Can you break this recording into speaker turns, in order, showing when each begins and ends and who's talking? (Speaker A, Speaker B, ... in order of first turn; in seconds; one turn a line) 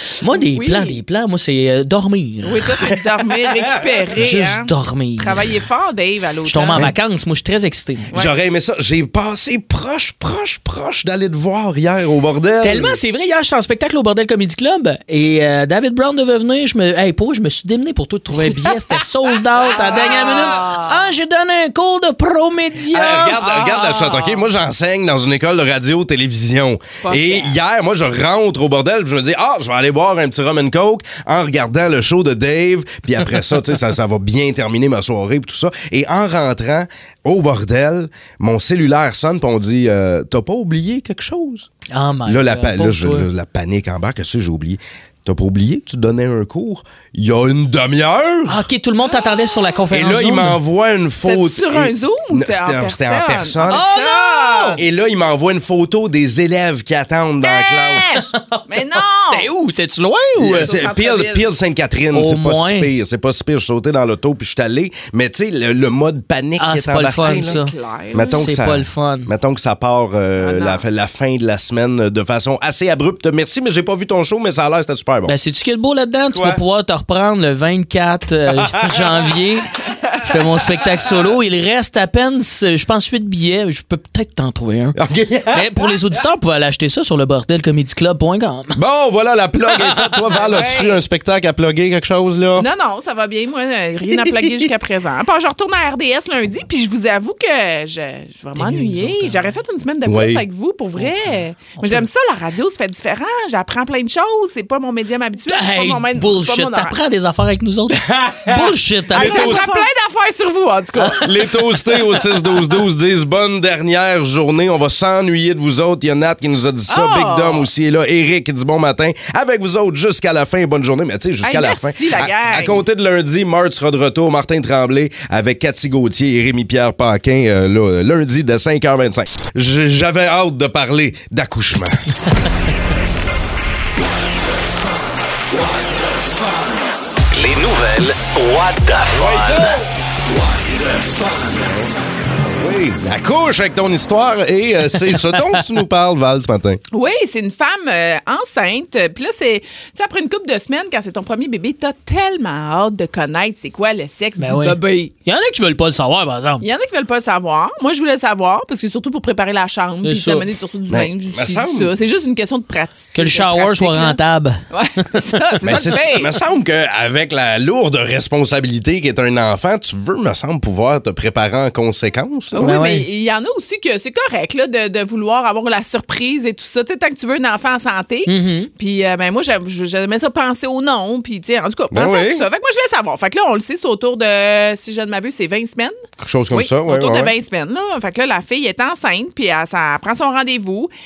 Speaker A: 0.2-2.8
Speaker B: 0.5-1.0
Speaker B: 2.4-6.9
Speaker C: 2.8-4.0
Speaker A: 4.2-5.4
Speaker A: 6.5-8.1
Speaker C: 8.1-13.0
Speaker A: 12.6-23.4
Speaker C: 19.8-20.6
Speaker B: 20.4-20.9
Speaker C: 22.9-41.7
Speaker B: 23.4-24.4
Speaker B: 27.0-27.5
Speaker A: 41.9-43.3
Speaker C: 42.3-48.6
Speaker A: 48.5-50.6
Speaker C: 49.9-53.8
Speaker B: 51.2-54.8
Speaker A: 53.7-54.8
Speaker C: 54.8-58.2
Speaker B: 57.4-59.5
Speaker A: 58.1-60.7
Speaker C: 60.4-67.5
Speaker B: 60.6-61.5
Speaker A: 62.1-62.9
Speaker A: 66.6-67.7
Speaker B: 67.3-68.4
Speaker C: 68.1-75.3
Speaker A: 68.2-69.3
Speaker B: 70.4-70.8
Speaker A: 75.2-79.7
Speaker C: 76.3-76.6
Speaker A: 80.2-85.0
Speaker C: 84.9-85.9
Speaker A: 85.5-88.8
Speaker C: 88.8-92.7
Speaker A: 89.8-90.6
Speaker B: 90.3-91.0
Speaker B: 92.6-106.9
Speaker A: 98.5-99.5
Speaker C: 100.0-100.4
Speaker A: 105.5-109.8
Speaker C: 108.0-109.6
Speaker B: 109.1-111.3
Speaker C: 111.2-132.1
Speaker B: 116.9-117.7
Speaker B: 121.4-122.8
Speaker D: 137.3-139.7
Speaker C: 139.1-139.8
Speaker C: 141.6-141.9
Speaker C: 142.4-146.8
Speaker B: 146.9-155.1
Speaker A: 154.4-156.6
Speaker B: 156.6-164.2
Speaker A: 160.0-160.4
Speaker C: 160.9-161.9
Speaker A: 163.1-165.8
Speaker B: 164.7-166.4
Speaker C: 165.6-172.6
Speaker B: 172.5-185.9
Speaker A: 172.6-173.1
Speaker A: 178.2-178.7
Speaker C: 181.9-182.4
Speaker C: 186.2-187.3
Speaker B: 186.5-190.9